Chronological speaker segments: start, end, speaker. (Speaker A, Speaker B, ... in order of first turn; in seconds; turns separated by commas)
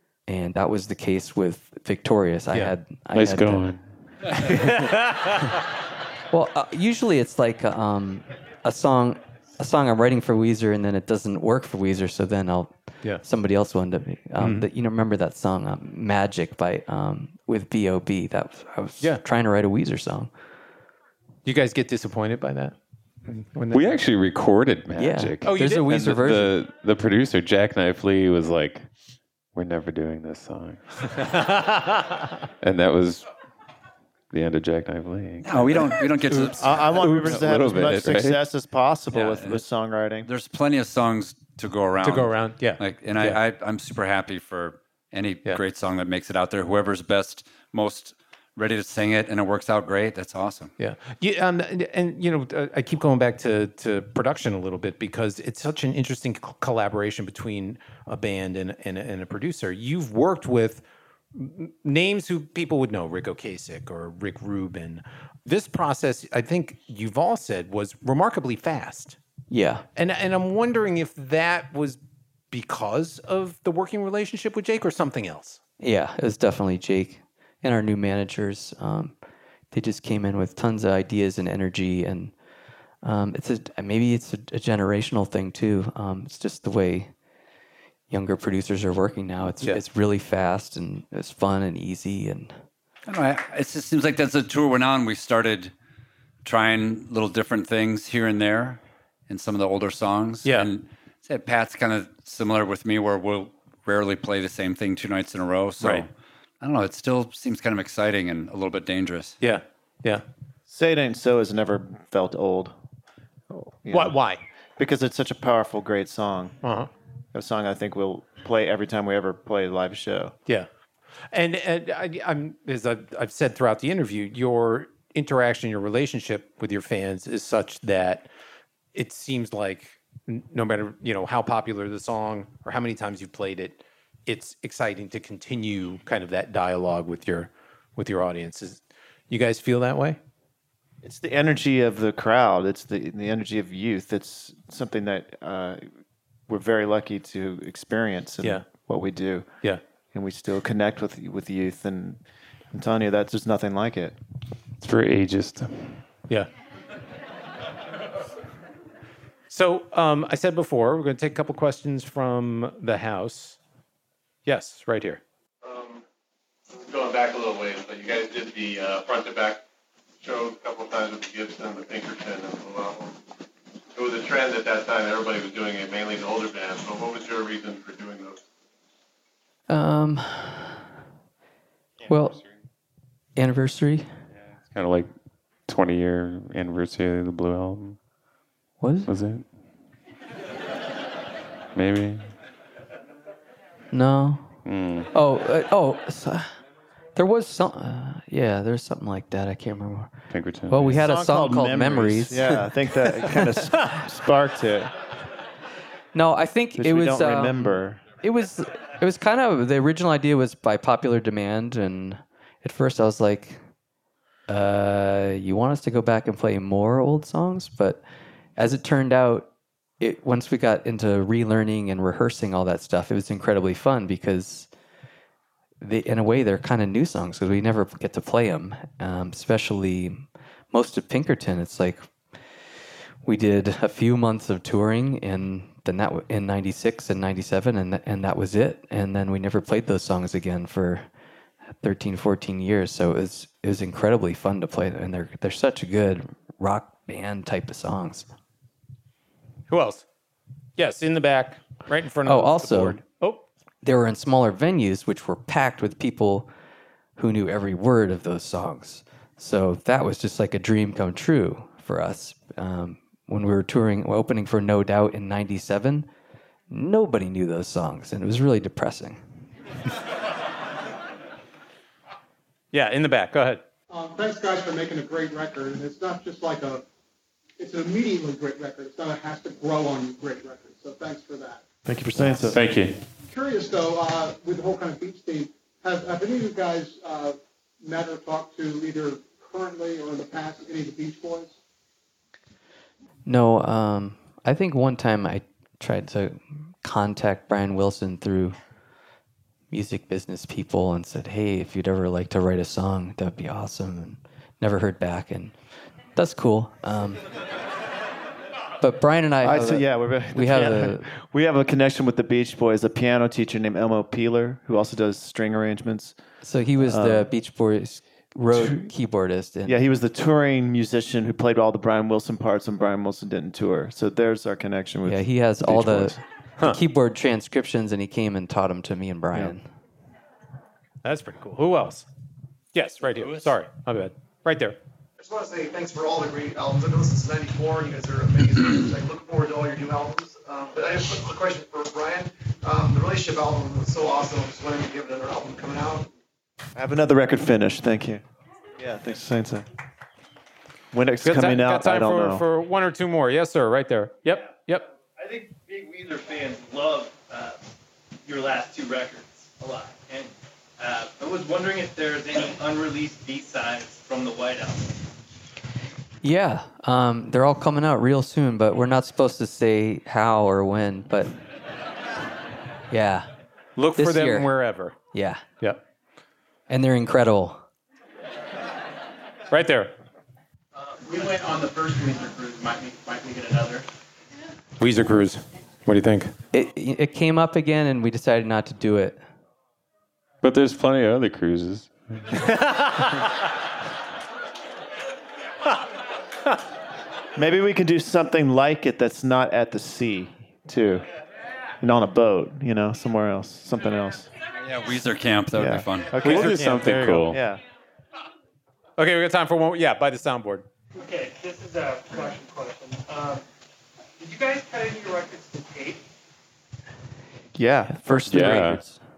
Speaker A: 0.3-3.7, Speaker B: 3.1-3.9, Speaker C: 4.3-5.4, Speaker A: 6.3-20.3, Speaker C: 14.4-14.7, Speaker C: 21.4-23.9, Speaker B: 23.7-28.9, Speaker A: 25.0-26.6, Speaker C: 25.4-25.9, Speaker B: 29.5-31.4, Speaker C: 31.2-32.2, Speaker B: 32.6-33.3, Speaker B: 34.3-36.0, Speaker D: 35.4-36.7, Speaker C: 36.3-37.4, Speaker E: 36.5-40.3, Speaker B: 36.9-38.4, Speaker D: 39.1-39.6, Speaker D: 40.2-50.7, Speaker C: 42.0-43.4, Speaker C: 50.8-69.2, Speaker A: 69.5-69.8, Speaker C: 70.0-72.0, Speaker C: 72.5-75.6, Speaker A: 75.8-79.2, Speaker A: 79.7-82.3, Speaker A: 83.0-87.1, Speaker A: 88.1-92.6, Speaker D: 93.1-95.7, Speaker D: 96.4-106.1, Speaker C: 100.4-100.7, Speaker C: 105.8-106.0, Speaker D: 106.6-109.3, Speaker C: 109.4-110.2, Speaker E: 110.7-112.7, Speaker C: 113.5-114.4, Speaker E: 113.8-116.7, Speaker C: 116.6-116.9, Speaker E: 117.3-120.3, Speaker C: 121.3-128.3, Speaker C: 128.9-140.2, Speaker E: 141.0-145.8, Speaker E: 146.5-154.2, Speaker B: 154.8-156.1, Speaker C: 159.5-163.6, Speaker C: 164.4-165.2, Speaker F: 165.6-166.0, Speaker F: 166.7-169.6, Speaker F: 170.2-173.2, Speaker F: 173.9-178.4, Speaker A: 179.7-180.8, Speaker A: 182.1-182.4, Speaker B: 182.1-182.5, Speaker A: 183.3-184.1, Speaker B: 184.3-185.1, Speaker B: 185.6-188.0, Speaker A: 188.8-189.1, Speaker B: 189.1-189.5, Speaker B: 191.7-192.3, Speaker A: 193.9-194.6, Speaker B: 194.6-195.1, Speaker A: 195.1-196.5, Speaker A: 197.2-202.7, Speaker B: 200.3-200.9, Speaker E: 200.8-205.1, Speaker A: 206.1-213.6, Speaker E: 206.8-208.1, Speaker A: 214.5-218.0, Speaker A: 218.6-224.7, Speaker A: 225.8-241.1, Speaker A: 241.7-248.3, Speaker C: 249.7-250.0, Speaker C: 250.8-253.4, Speaker A: 252.2-253.0, Speaker A: 253.8-256.5, Speaker A: 257.2-266.1, Speaker A: 266.7-269.2, Speaker C: 272.7-273.6, Speaker G: 273.9-276.9, Speaker G: 277.6-281.6, Speaker E: 281.9-282.7, Speaker B: 282.1-283.0, Speaker G: 283.3-291.6, Speaker A: 293.2-298.6, Speaker A: 299.7-305.6, Speaker A: 306.1-307.3, Speaker A: 308.8-311.1, Speaker E: 309.4-316.2, Speaker A: 316.4-319.8, Speaker E: 316.8-317.2, Speaker E: 318.5-318.9, Speaker E: 319.6-326.2, Speaker A: 325.1-329.7, Speaker C: 331.0-332.1, Speaker C: 332.7-334.8, Speaker H: 335.2-346.1, Speaker E: 346.7-348.2, Speaker E: 348.8-349.7, Speaker E: 350.9-352.4, Speaker C: 351.2-354.9, Speaker I: 355.2-357.6, Speaker I: 358.2-364.9, Speaker A: 366.2-371.4, Speaker A: 372.9-373.3, Speaker C: 373.8-374.9, Speaker A: 373.9-374.5, Speaker A: 375.1-375.4, Speaker A: 376.7-377.6, Speaker C: 379.5-379.9, Speaker I: 380.7-383.9, Speaker C: 384.8-386.3, Speaker A: 386.5-389.2, Speaker B: 390.4-392.4, Speaker C: 392.4-393.3, Speaker E: 397.4-401.1, Speaker E: 401.8-404.3, Speaker D: 404.6-406.1, Speaker E: 405.5-407.6, Speaker C: 406.2-406.9, Speaker B: 406.2-407.4, Speaker C: 409.0-410.6, Speaker J: 410.9-413.4, Speaker J: 414.2-416.1, Speaker E: 417.5-418.8, Speaker A: 417.9-419.0, Speaker B: 418.3-418.8